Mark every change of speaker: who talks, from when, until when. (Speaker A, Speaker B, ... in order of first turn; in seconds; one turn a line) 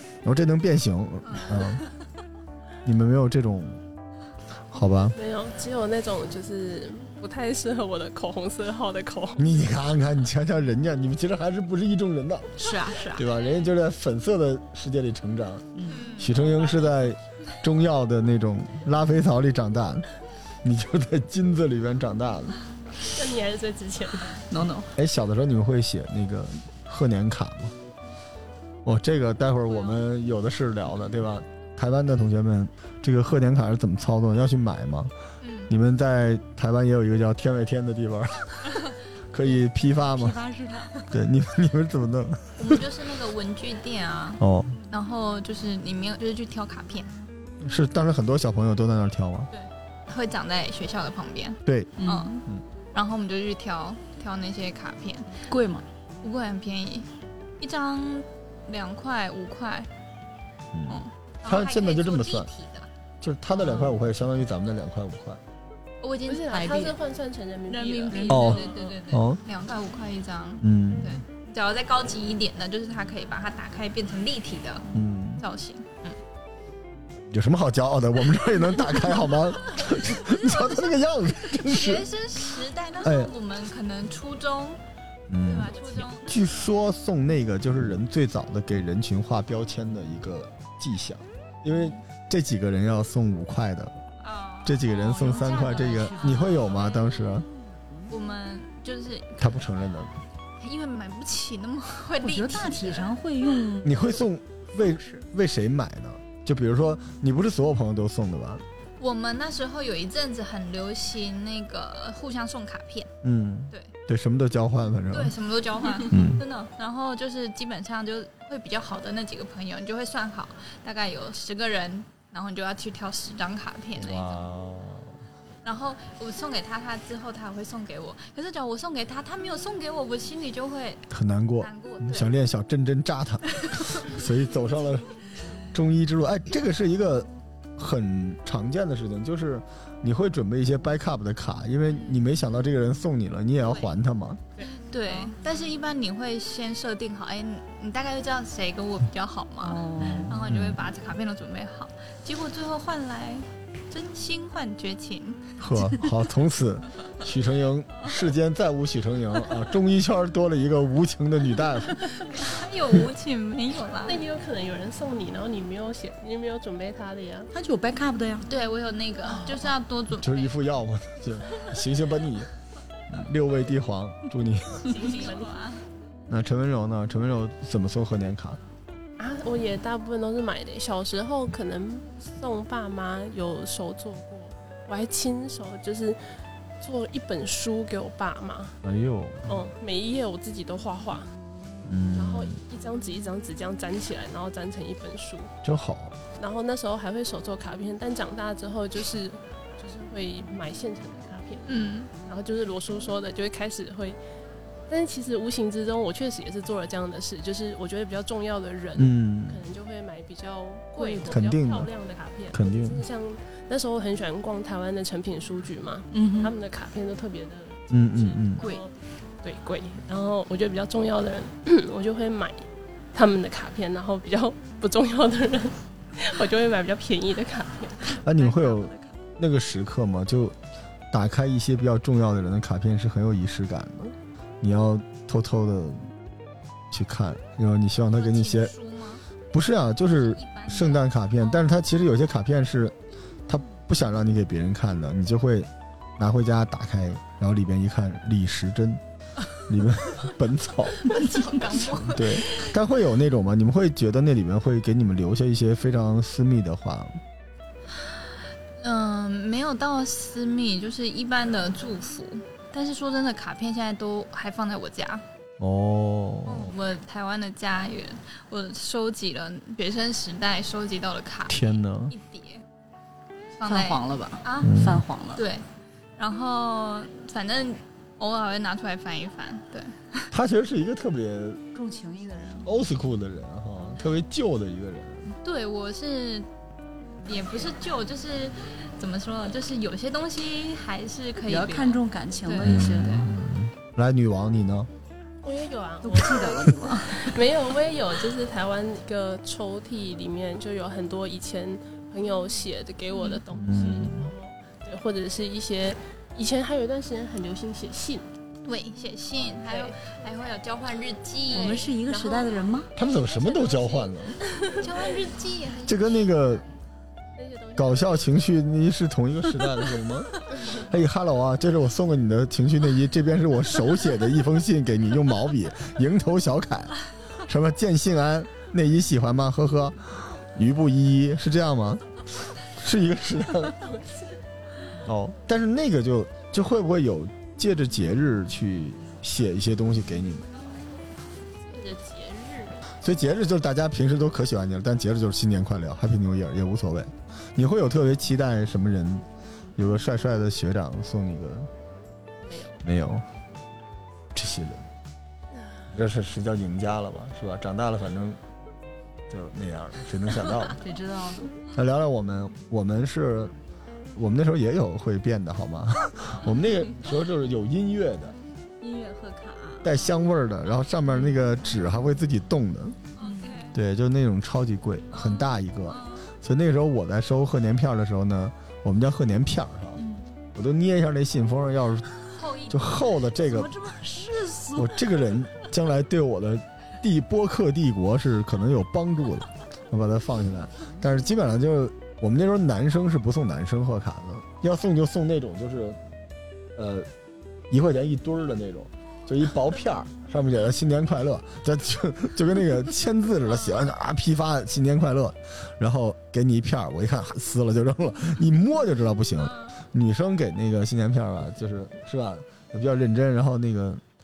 Speaker A: 0.2-1.8
Speaker B: 1.3-1.7
Speaker A: 2.8-3.8
Speaker A: 4.7-5.2
Speaker C: 5.1-9.6
Speaker A: 9.4-12.6
Speaker D: 12.6-13.2
Speaker A: 13.1-20.1
Speaker B: 13.3-13.7
Speaker D: 15.7-16.1
Speaker B: 15.9-16.7
Speaker A: 20.6-22.6
Speaker C: 23.1-24.4
Speaker D: 24.5-24.9
Speaker A: 24.9-27.7
Speaker A: 28.8-35.1
Speaker B: 29.7-30.0
Speaker B: 35.4-35.7
Speaker A: 35.7-40.4
Speaker D: 40.0-41.1
Speaker A: 41.1-42.9
Speaker B: 42.6-47.1
Speaker A: 44.4-44.8
Speaker A: 47.6-49.5
Speaker B: 49.5-55.4
Speaker A: 51.6-51.9
Speaker D: 52.0-52.4
Speaker D: 55.5-55.8
Speaker B: 56.2-59.9
Speaker A: 60.7-62.5
Speaker B: 60.9-62.9
Speaker A: 63.2-65.4
Speaker B: 66.0-66.8
Speaker C: 66.2-68.9
Speaker D: 66.5-66.9
Speaker D: 67.7-68.6
Speaker B: 68.0-74.9
Speaker A: 68.3-69.4
Speaker A: 70.6-71.2
Speaker A: 74.9-75.4
Speaker B: 75.4-76.2
Speaker A: 77.3-82.1
Speaker B: 80.2-80.8
Speaker B: 81.5-84.8
Speaker A: 83.0-83.3
Speaker A: 85.3-94.0
Speaker B: 85.4-86.8
Speaker B: 91.7-92.0
Speaker B: 94.2-97.3
Speaker A: 94.6-97.5
Speaker D: 95.0-96.6
Speaker B: 98.1-99.6
Speaker A: 99.4-100.1
Speaker B: 100.6-103.1
Speaker D: 102.2-104.1
Speaker A: 103.8-108.6
Speaker D: 104.8-105.2
Speaker B: 109.0-113.1
Speaker A: 113.2-115.3
Speaker B: 115.1-124.4
Speaker A: 116.1-116.4
Speaker A: 124.0-125.1
Speaker B: 125.6-131.1
Speaker A: 131.1-135.1
Speaker B: 131.6-132.3
Speaker A: 135.7-144.4
Speaker B: 141.9-142.2
Speaker B: 143.6-143.9
Speaker B: 144.9-155.6
Speaker D: 149.6-150.4
Speaker A: 150.0-150.8
Speaker A: 155.6-162.1
Speaker B: 162.3-164.2
Speaker C: 164.0-167.5
Speaker D: 167.5-168.5
Speaker B: 168.4-170.6
Speaker A: 170.2-172.5
Speaker A: 173.1-174.9
Speaker C: 174.8-175.6
Speaker B: 174.8-175.8
Speaker A: 176.3-178.6
Speaker C: 179.2-186.2
Speaker C: 186.8-188.8
Speaker A: 188.8-189.6
Speaker C: 189.5-191.3
Speaker A: 191.8-192.6
Speaker C: 192.1-195.5
Speaker A: 195.6-196.2
Speaker C: 196.4-204.2
Speaker B: 201.7-202.1
Speaker C: 204.9-228.7
Speaker A: 208.9-209.6
Speaker D: 210.9-211.4
Speaker A: 211.3-211.9
Speaker A: 212.5-213.0
Speaker D: 216.1-216.5
Speaker A: 217.9-218.7
Speaker A: 228.1-230.6
Speaker A: 231.1-236.1
Speaker A: 236.9-238.7
Speaker B: 238.1-239.2
Speaker A: 239.5-242.9
Speaker B: 240.1-241.7
Speaker A: 243.5-249.0
Speaker A: 249.7-251.2
Speaker B: 251.0-252.7
Speaker A: 251.9-257.2
Speaker B: 258.0-258.2
Speaker B: 258.8-265.2
Speaker A: 265.6-266.8
Speaker B: 266.4-272.6
Speaker A: 271.5-272.1
Speaker B: 273.6-274.8
Speaker D: 273.6-275.4
Speaker A: 274.6-275.0
Speaker B: 275.3-275.6
Speaker B: 276.2-280.3
Speaker A: 280.3-281.6
Speaker D: 281.7-282.7
Speaker A: 282.6-285.4
Speaker B: 285.4-286.5
Speaker B: 287.2-293.3
Speaker D: 291.4-293.3
Speaker A: 292.6-294.9
Speaker C: 295.4-308.3
Speaker D: 296.0-297.4
Speaker A: 303.5-304.3
Speaker B: 308.6-311.9
Speaker C: 309.6-310.0
Speaker C: 311.5-315.2
Speaker D: 311.5-312.9
Speaker A: 312.9-314.4
Speaker B: 313.1-313.9
Speaker B: 314.8-316.4
Speaker A: 315.8-316.6
Speaker C: 317.4-318.4
Speaker A: 317.8-333.8
Speaker C: 333.8-334.3
Speaker A: 335.0-340.4
Speaker C: 341.6-342.8
Speaker A: 343.0-351.7
Speaker C: 352.4-352.8
Speaker A: 352.8-353.2
Speaker A: 354.3-354.9
Speaker A: 355.9-358.4
Speaker A: 359.3-360.8
Speaker D: 360.8-361.5
Speaker A: 361.7-363.5
Speaker A: 364.1-368.4
Speaker D: 368.8-370.0
Speaker A: 369.8-373.0
Speaker B: 373.2-373.7
Speaker D: 373.2-373.7
Speaker A: 373.7-380.0
Speaker B: 375.1-376.3
Speaker D: 379.9-380.2
Speaker A: 380.5-382.1
Speaker B: 382.3-383.1
Speaker A: 382.7-383.7
Speaker D: 383.3-385.1
Speaker A: 384.7-396.0
Speaker A: 396.8-397.1
Speaker A: 397.7-414.0